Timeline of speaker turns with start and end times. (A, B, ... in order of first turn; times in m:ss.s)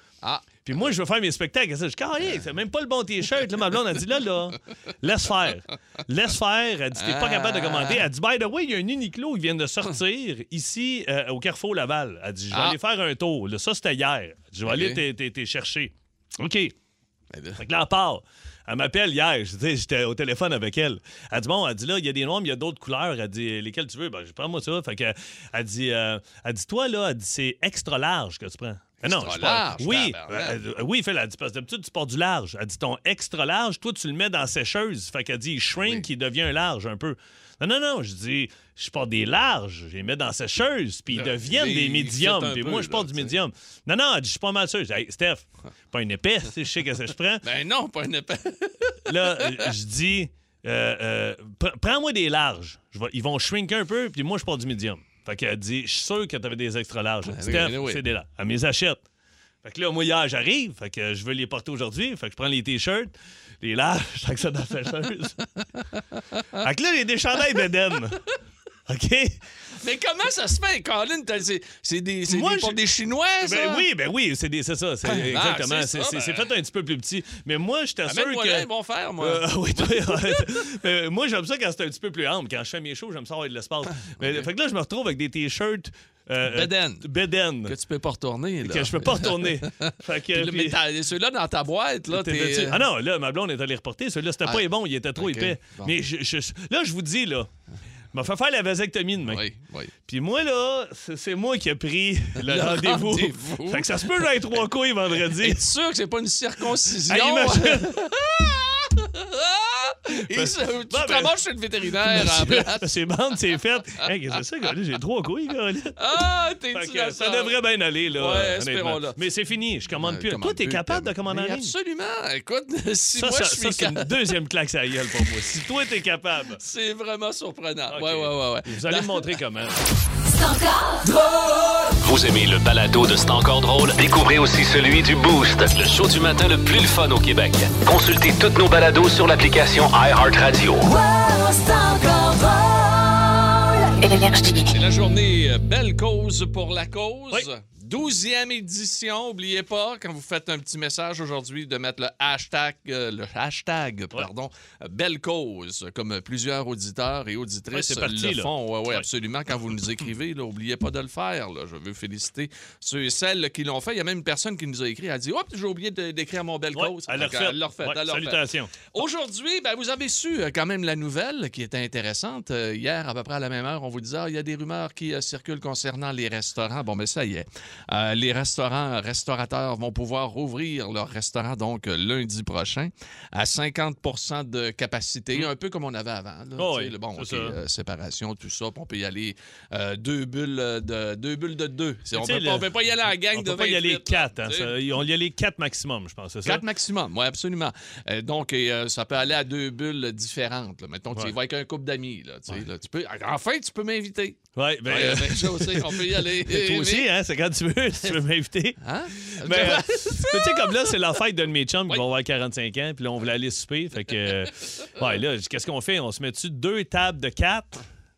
0:00.2-0:00.9 A
0:00.6-0:16.7 B
0:07.0-0:08.0 A
0:12.5-0:12.8 A
0:14.6-0:15.0 A
0:17.3-0:17.6 A
0:17.6-0:47.4 B
0:29.0-0:30.6 A
0:35.8-0:36.0 A
0:41.1-0:43.3 A
0:47.4-0:49.7 A
0:49.1-0:59.0 B
0:57.2-0:58.0 A
0:59.6-1:05.4 B
1:06.6-1:08.2 B
1:08.9-1:09.4 B
1:09.8-1:13.8 A
1:12.3-1:12.8 B
1:13.4-1:18.7 B
1:15.0-1:16.4 A
1:18.0-1:20.7 A
1:19.2-1:27.8 B
1:24.0-1:24.5 A
1:26.4-1:27.1 A
1:27.6-1:32.8 A
1:28.6-1:30.8 B
1:32.1-1:37.5 B
1:34.4-1:35.9 A
1:38.1-1:39.4 B
1:39.2-1:39.9 A
1:40.1-1:45.6 B
1:42.4-1:44.3 A
1:45.2-1:52.9 A
1:47.1-1:48.0 B
1:50.3-1:51.3 B
1:52.0-1:56.0 B
1:56.0-1:57.5 A
1:56.7-2:01.7 B
1:58.2-1:59.2 A
2:00.0-2:04.1 A
2:03.1-2:06.6 B
2:06.6-2:09.3 A
2:07.9-2:09.8 B
2:10.2-2:11.8 C
2:12.0-2:20.8 D
2:20.8-2:24.6 C
2:24.7-3:14.8 A
2:37.7-2:39.0 B
2:46.7-2:48.7 B
3:06.6-3:07.6 B
3:12.1-3:12.7 B
3:13.3-3:16.6 B
3:16.4-3:27.1 A
3:24.6-3:37.8 B
3:28.8-3:30.9 A